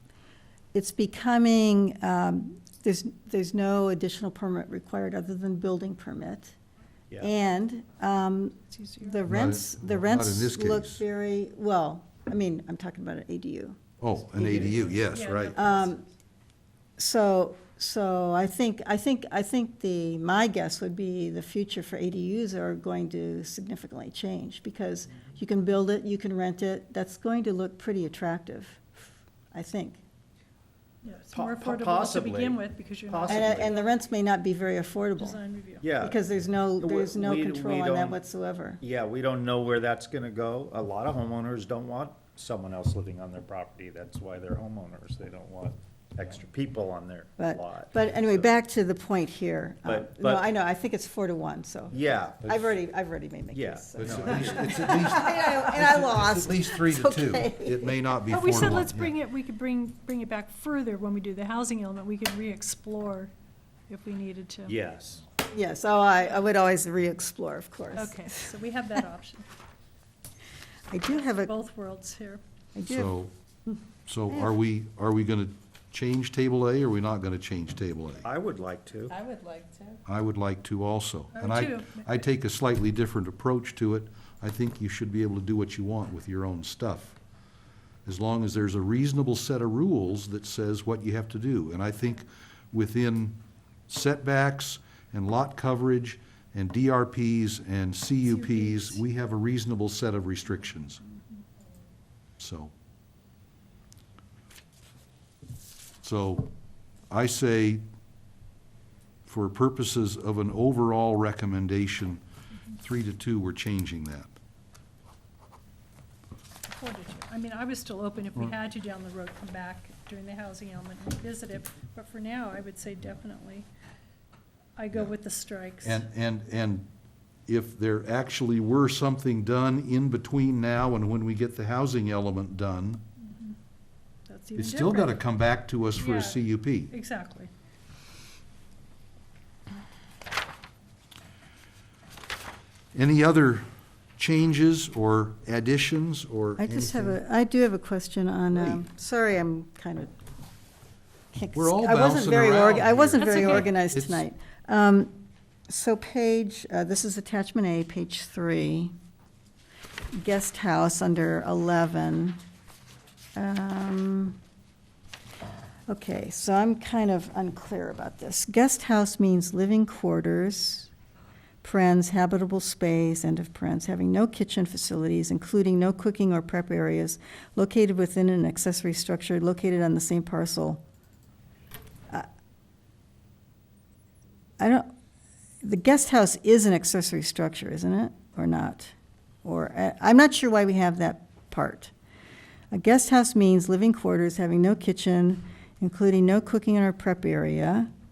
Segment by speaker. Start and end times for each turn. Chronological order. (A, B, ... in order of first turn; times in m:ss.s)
0:00.7-0:06.5 A
0:07.2-0:14.9 A
0:08.7-0:09.2 B
0:09.3-0:11.0 C
0:14.0-0:15.6 C
0:14.4-0:14.8 D
0:15.0-0:16.0 B
0:15.6-0:16.0 A
0:17.0-0:30.0 A
0:31.0-0:33.9 B
0:31.3-0:33.8 D
0:33.3-0:35.4 A
0:35.2-0:35.8 B
0:35.8-0:36.2 D
0:36.0-0:38.8 A
0:36.8-0:38.2 D
0:38.8-0:48.5 D
0:47.4-0:58.0 A
0:49.8-0:50.5 D
0:51.9-0:52.7 D
0:53.5-0:54.7 D
0:54.0-0:59.2 C
0:58.3-1:03.3 B
1:03.9-1:04.8 B
1:04.7-1:05.2 D
1:05.4-1:08.5 A
1:07.9-1:09.5 B
1:10.9-1:11.5 A
1:11.2-1:12.4 B
1:12.8-1:13.2 A
1:12.9-1:13.3 C
1:14.1-1:18.2 C
1:18.2-1:19.2 D
1:19.2-1:19.9 B
1:20.1-1:27.2 C
1:21.3-1:22.2 B
1:28.1-1:41.0 C
1:38.2-1:39.0 B
1:42.4-1:42.7 C
1:46.0-1:46.5 C
1:47.1-1:47.8 C
1:49.2-1:52.2 C
1:52.8-1:54.3 C
1:56.7-2:03.7 B
2:04.8-2:06.0 B
2:05.8-2:06.9 C
2:07.5-2:13.0 C
2:13.2-2:13.6 B
2:14.3-2:15.2 B
2:14.5-2:16.9 C
2:16.0-2:17.5 B
2:22.9-2:27.2 C
2:26.6-2:30.1 A
2:28.5-2:28.8 C
2:31.3-2:35.2 A
2:31.5-2:34.2 C
2:33.2-2:33.7 B
2:35.7-2:38.9 A
2:40.1-2:42.4 A
2:43.4-2:44.4 A
2:45.9-2:50.9 A
2:51.6-3:00.8 A
3:04.6-3:04.9 A
3:05.6-3:08.9 A
3:09.4-3:11.9 A
3:12.7-3:17.9 A